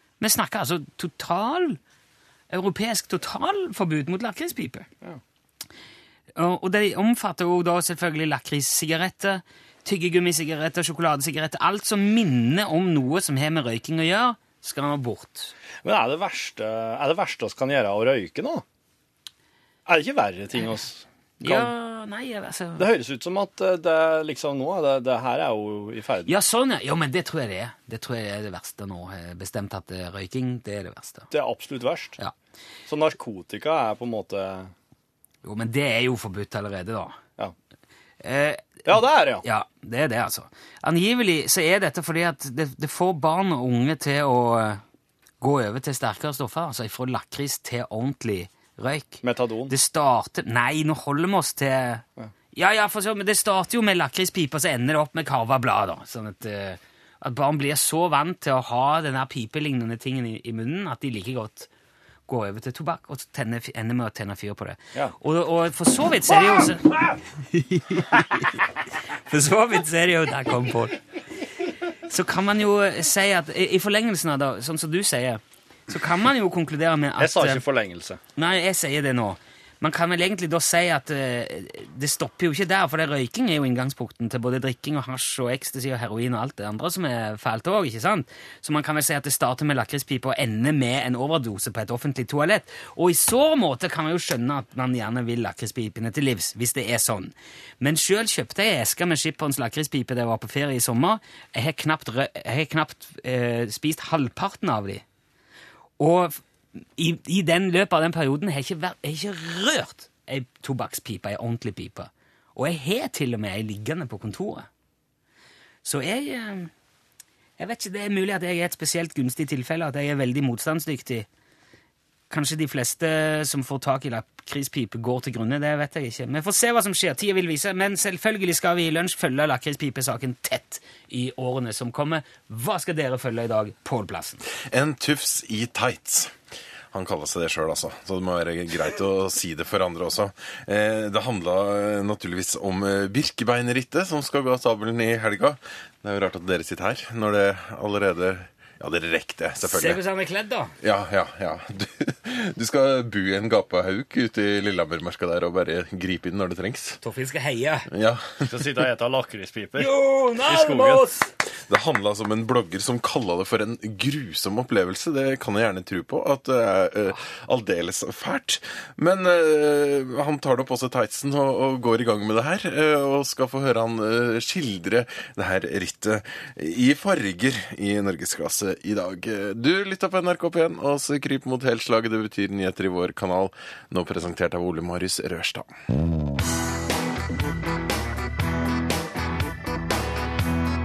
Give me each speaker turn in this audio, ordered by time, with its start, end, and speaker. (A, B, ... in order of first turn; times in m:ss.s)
0:00.2-0:01.8 A
0:02.5-0:04.9 A
0:06.4-0:15.5 A
0:15.8-0:18.6 B
0:19.9-0:21.7 B
0:21.4-0:22.9 A
0:22.8-0:26.3 B
0:26.3-0:31.3 A
0:31.3-0:32.2 B
0:32.9-0:34.7 B
0:35.4-0:37.2 A
0:38.2-0:38.8 A
0:38.8-0:39.4 B
0:39.4-0:44.8 A
0:45.4-1:01.7 A
0:49.2-0:49.7 B
1:02.3-1:07.0 A
1:06.3-1:07.2 B
1:07.5-1:08.6 A
1:09.1-1:11.0 A
1:12.1-1:17.6 A
1:17.2-1:18.2 B
1:18.4-1:45.0 A
1:46.0-1:54.7 A
1:55.8-1:56.7 A
1:57.6-2:01.3 A
2:02.3-2:14.4 A
2:14.7-2:16.4 C
2:16.9-2:30.0 C
2:29.6-2:30.7 A
2:30.8-2:37.0 C
2:37.0-2:37.9 A
2:37.9-2:38.5 C
2:38.4-2:39.9 B
2:39.8-2:41.3 A
2:40.4-2:41.1 B
2:41.7-3:05.7 C